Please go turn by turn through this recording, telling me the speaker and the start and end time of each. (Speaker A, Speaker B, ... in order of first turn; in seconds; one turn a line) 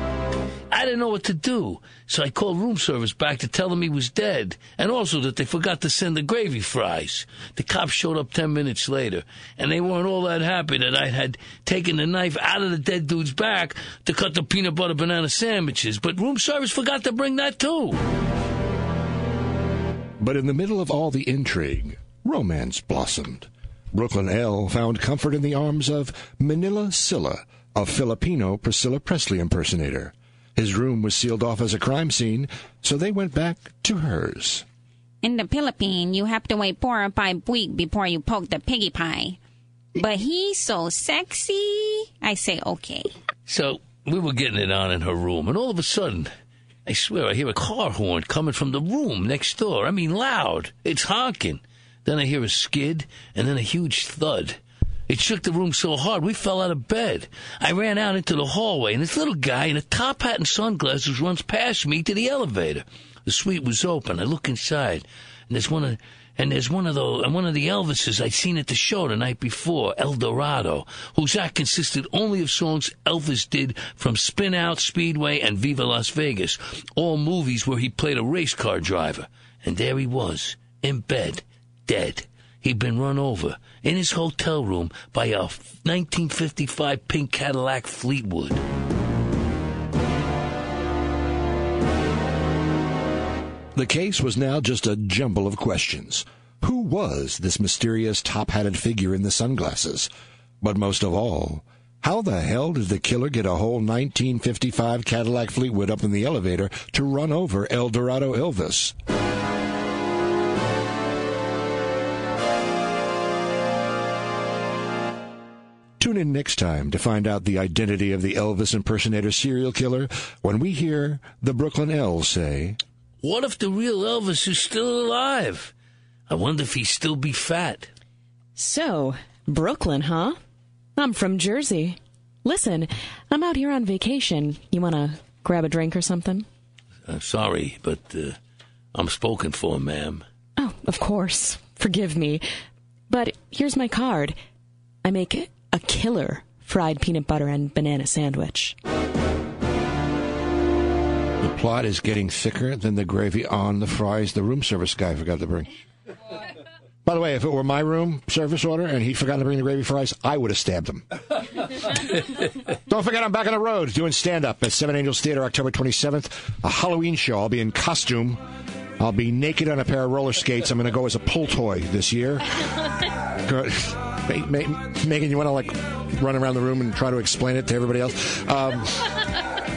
Speaker A: 0.7-18.0
Speaker B: 20.2-34.6
Speaker C: 35.2-39.4
Speaker C: 40.0-43.1
Speaker A: 43.5-46.3
Speaker A: 46.9-88.6
Speaker B: 93.7-108.9
Speaker B: 116.0-122.8
Speaker A: 123.2-125.7
Speaker A: 126.3-127.9
Speaker D: 128.6-130.4
Speaker D: 130.9-136.4
Speaker A: 137.1-138.4
Speaker A: 138.9-140.2
Speaker D: 140.6-142.4
Speaker D: 143.1-144.3
Speaker D: 145.0-148.7
Speaker B: 151.4-155.7
Speaker B: 157.0-161.0
Speaker B: 162.8-168.4
Speaker B: 169.0-172.8
Speaker B: 173.4-179.4